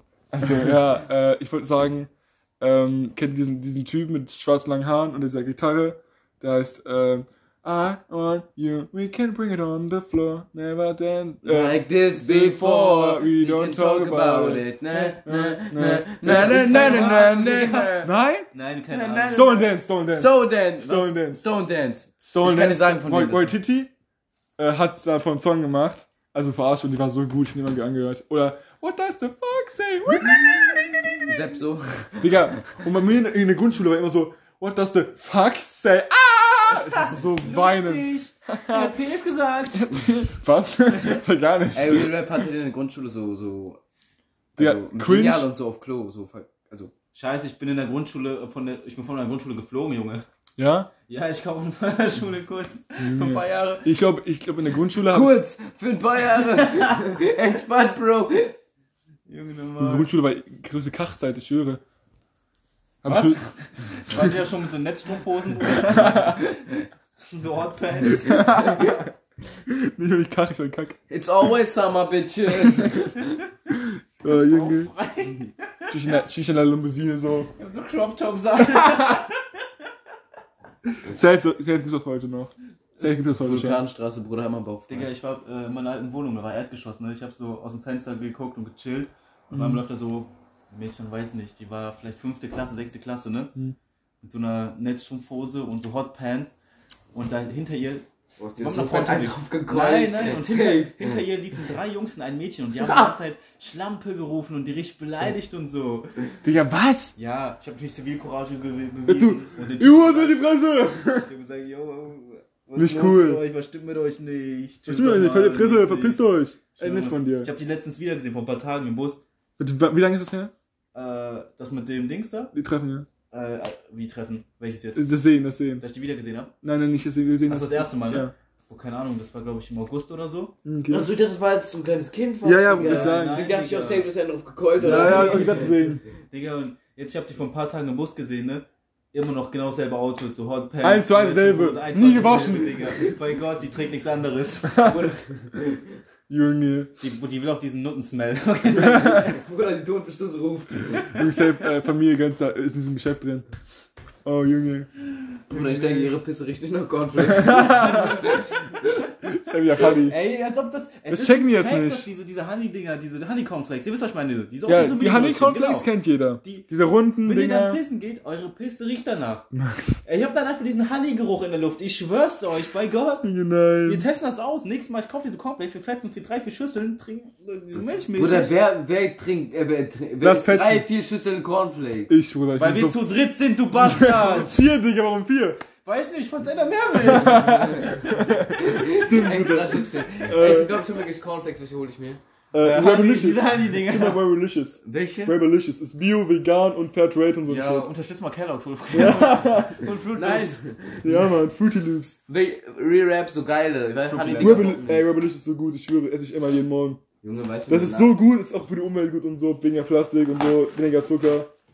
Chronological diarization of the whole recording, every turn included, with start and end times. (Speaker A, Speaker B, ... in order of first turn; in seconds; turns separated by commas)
Speaker A: 0.3-17.2, Speaker B: 11.4-18.1, Speaker C: 16.2-19.6, Speaker A: 18.0-18.5, Speaker B: 18.9-23.6, Speaker A: 19.3-21.4, Speaker A: 22.2-23.9, Speaker A: 24.6-31.3, Speaker B: 31.2-32.8, Speaker A: 32.2-39.0, Speaker C: 36.7-40.1, Speaker A: 39.7-42.4, Speaker C: 40.9-41.2, Speaker B: 41.7-43.8, Speaker A: 44.6-45.5, Speaker B: 44.6-46.9, Speaker C: 47.1-50.2, Speaker A: 50.6-50.9, Speaker C: 51.1-53.9, Speaker A: 53.0-55.4, Speaker B: 55.0-58.5, Speaker C: 56.3-56.9, Speaker C: 59.3-60.1, Speaker A: 59.8-61.8, Speaker A: 63.0-63.4, Speaker C: 63.1-68.9, Speaker A: 64.1-64.3, Speaker A: 65.7-66.4, Speaker A: 68.1-69.1, Speaker B: 68.5-68.9, Speaker A: 69.7-71.0, Speaker B: 71.1-73.3, Speaker A: 73.7-74.9, Speaker C: 74.2-76.0, Speaker A: 75.9-77.5, Speaker C: 77.6-79.5, Speaker A: 81.0-83.8, Speaker B: 83.3-85.1, Speaker C: 84.9-93.5, Speaker A: 89.5-89.8, Speaker C: 94.2-96.5, Speaker C: 97.1-98.0, Speaker B: 98.4-101.2, Speaker C: 98.6-106.2, Speaker B: 102.8-103.1, Speaker A: 106.4-107.1, Speaker C: 107.2-116.2, Speaker A: 109.1-111.3, Speaker A: 112.7-113.4, Speaker A: 114.9-117.5, Speaker C: 116.8-119.2, Speaker A: 119.6-120.5, Speaker C: 120.9-122.5, Speaker A: 122.5-123.1, Speaker C: 123.3-125.1, Speaker A: 125.0-125.8, Speaker C: 125.8-126.5, Speaker A: 126.6-128.3, Speaker C: 127.5-130.5, Speaker A: 130.6-131.1, Speaker B: 130.9-135.8, Speaker A: 132.4-133.4, Speaker C: 132.8-134.1, Speaker A: 134.8-136.0, Speaker C: 134.8-145.1, Speaker A: 140.8-143.0, Speaker B: 142.0-143.1, Speaker A: 144.7-145.0, Speaker B: 144.8-145.8, Speaker A: 146.3-146.9, Speaker C: 147.0-149.4, Speaker B: 148.8-151.1, Speaker A: 148.8-149.1, Speaker A: 151.1-153.4, Speaker A: 154.2-154.9, Speaker B: 155.5-159.1, Speaker A: 155.5-156.1, Speaker A: 157.2-158.2, Speaker C: 157.5-158.5, Speaker A: 159.2-160.2, Speaker C: 159.8-165.9, Speaker A: 161.1-162.1, Speaker A: 164.7-167.8, Speaker C: 166.4-166.7, Speaker C: 167.2-169.5, Speaker A: 169.5-169.9, Speaker C: 170.0-173.3, Speaker A: 173.2-174.1, Speaker C: 173.8-178.6, Speaker B: 178.1-182.2, Speaker A: 180.2-180.8, Speaker A: 182.1-183.0, Speaker C: 182.6-184.6, Speaker A: 183.8-185.6, Speaker C: 185.8-188.1, Speaker A: 186.9-190.8, Speaker B: 187.6-192.2, Speaker A: 192.5-197.9, Speaker C: 192.6-194.2, Speaker B: 194.8-195.4, Speaker C: 197.5-200.6, Speaker A: 198.9-199.9, Speaker B: 200.1-201.3, Speaker A: 201.0-202.2, Speaker B: 202.3-205.1, Speaker C: 204.0-204.8, Speaker A: 204.4-207.0, Speaker B: 207.2-208.2, Speaker A: 207.7-211.5